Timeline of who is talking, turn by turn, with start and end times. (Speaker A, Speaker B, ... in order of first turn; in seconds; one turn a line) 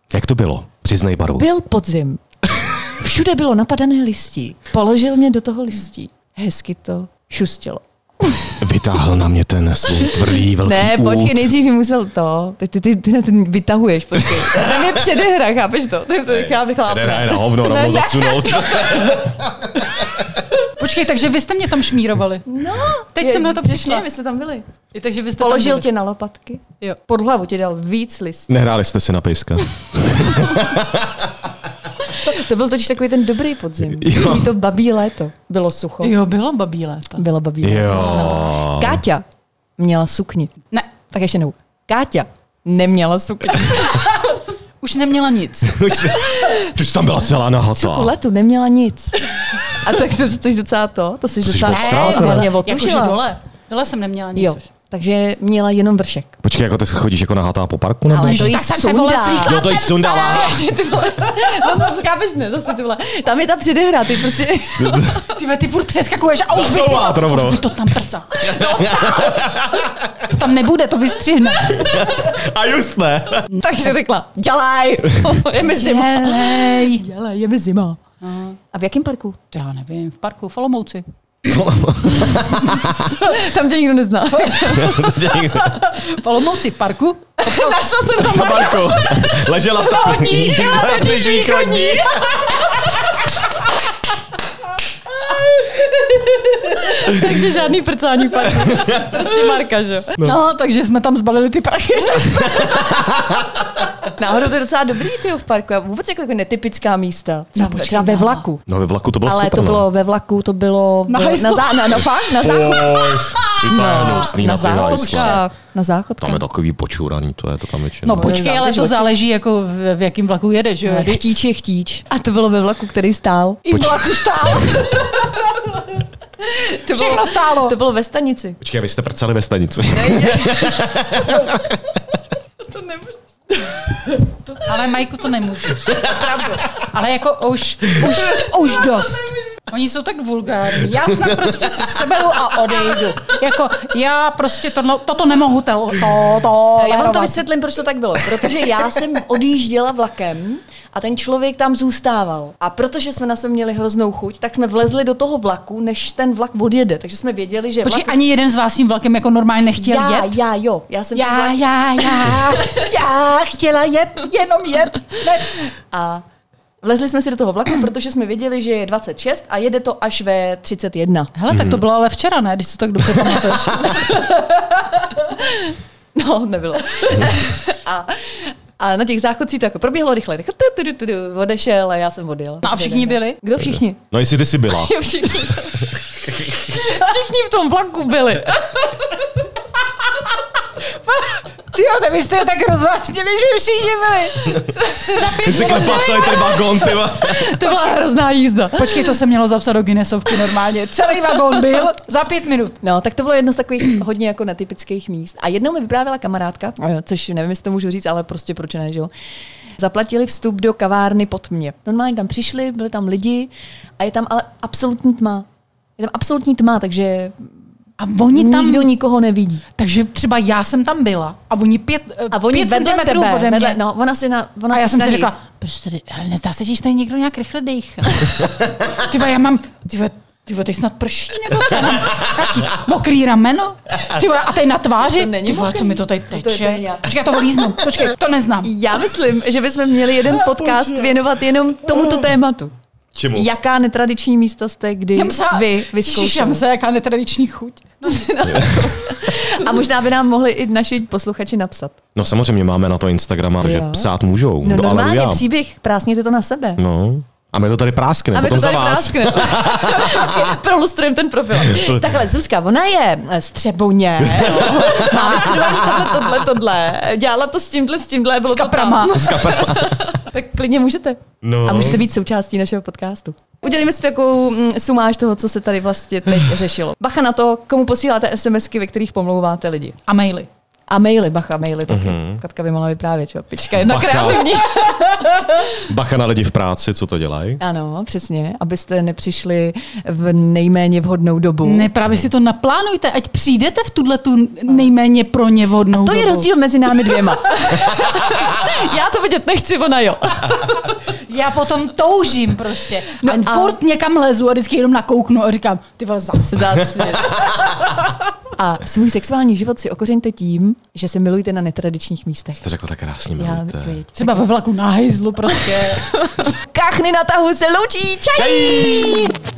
Speaker A: 0.1-1.5
Speaker B: 1.4-8.5
Speaker A: 8.6-11.5
Speaker B: 9.9-19.3
Speaker A: 14.2-15.0
Speaker A: 16.3-19.7
Speaker C: 20.6-22.4
Speaker B: 22.4-24.7
Speaker C: 23.1-24.1
Speaker C: 24.9-25.9
Speaker B: 25.4-28.5
Speaker A: 28.5-31.3
Speaker B: 32.0-36.1
Speaker A: 33.9-34.5
Speaker C: 36.0-37.2
Speaker B: 37.2-39.2
Speaker A: 37.6-39.0
Speaker C: 37.8-38.4
Speaker B: 39.8-40.5
Speaker B: 41.1-44.0
Speaker C: 44.0-45.9
Speaker A: 45.7-48.1
Speaker B: 46.1-46.7
Speaker B: 47.7-53.2
Speaker A: 51.4-52.5
Speaker C: 51.7-54.6
Speaker B: 54.3-56.3
Speaker A: 56.4-58.6
Speaker C: 58.1-60.3
Speaker B: 58.2-65.3
Speaker A: 59.3-60.6
Speaker A: 64.8-65.2
Speaker C: 65.3-68.3
Speaker A: 66.5-67.8
Speaker A: 68.4-70.2
Speaker B: 68.4-69.4
Speaker C: 70.2-71.7
Speaker A: 71.6-73.5
Speaker C: 73.5-73.8
Speaker B: 73.6-78.0
Speaker C: 75.6-77.0
Speaker C: 78.2-78.6
Speaker B: 78.7-79.4
Speaker C: 79.5-81.0
Speaker A: 81.4-83.2
Speaker B: 82.6-85.3
Speaker A: 84.6-85.8
Speaker C: 85.5-87.9
Speaker B: 87.4-93.0
Speaker A: 88.2-92.3
Speaker C: 90.1-92.6
Speaker B: 96.6-100.2
Speaker A: 98.6-99.0
Speaker C: 100.2-102.8
Speaker A: 102.6-103.4
Speaker B: 104.2-108.6
Speaker C: 107.5-108.5
Speaker A: 108.7-109.9
Speaker B: 109.2-112.9
Speaker C: 111.1-112.0
Speaker A: 112.3-115.4
Speaker C: 112.8-115.4
Speaker B: 113.7-116.4
Speaker A: 116.2-118.4
Speaker C: 118.0-121.2
Speaker B: 118.1-119.1
Speaker B: 120.8-123.6
Speaker C: 123.6-126.0
Speaker B: 126.4-128.6
Speaker C: 126.8-127.8
Speaker A: 128.6-131.8
Speaker B: 129.9-131.5
Speaker B: 132.6-134.6
Speaker C: 134.5-147.4
Speaker B: 146.8-158.1
Speaker C: 157.8-160.4
Speaker B: 159.7-162.8
Speaker C: 161.1-165.6
Speaker B: 165.0-166.2
Speaker B: 166.8-171.3
Speaker C: 171.3-175.0
Speaker A: 171.5-171.8
Speaker B: 173.8-174.4
Speaker B: 175.1-184.1
Speaker C: 182.6-183.4
Speaker A: 184.0-184.9
Speaker B: 184.7-189.3
Speaker C: 191.1-196.8
Speaker A: 195.4-197.5
Speaker B: 196.5-199.2
Speaker C: 197.6-198.1
Speaker C: 198.7-202.8
Speaker B: 202.8-209.1
Speaker B: 209.8-215.4
Speaker B: 216.0-217.4
Speaker C: 218.0-218.9
Speaker B: 218.3-219.6
Speaker C: 219.8-223.8
Speaker B: 222.3-225.3
Speaker C: 224.7-238.7
Speaker B: 235.0-237.1
Speaker B: 238.6-242.7
Speaker A: 240.6-241.1
Speaker A: 241.9-242.2
Speaker A: 243.1-243.5
Speaker B: 243.3-246.6
Speaker C: 245.2-248.9
Speaker B: 248.0-251.9
Speaker A: 248.5-248.7
Speaker A: 252.2-255.4
Speaker B: 253.6-256.8
Speaker A: 256.8-260.4
Speaker B: 258.3-280.0
Speaker A: 261.6-262.0
Speaker A: 264.2-266.2
Speaker C: 264.9-265.8
Speaker C: 268.5-269.3
Speaker A: 269.1-270.0
Speaker A: 271.4-272.0
Speaker C: 280.1-280.5
Speaker B: 280.9-285.7
Speaker A: 281.9-282.4
Speaker A: 283.8-284.5
Speaker A: 285.8-287.6
Speaker B: 287.6-291.9
Speaker C: 291.6-296.5
Speaker B: 295.9-300.8
Speaker C: 301.1-307.4
Speaker B: 303.1-303.8
Speaker B: 306.5-307.6
Speaker B: 308.5-312.6
Speaker A: 312.6-314.0
Speaker B: 313.4-314.4
Speaker C: 314.1-316.1
Speaker B: 315.6-319.3
Speaker A: 318.6-319.0
Speaker C: 318.8-319.3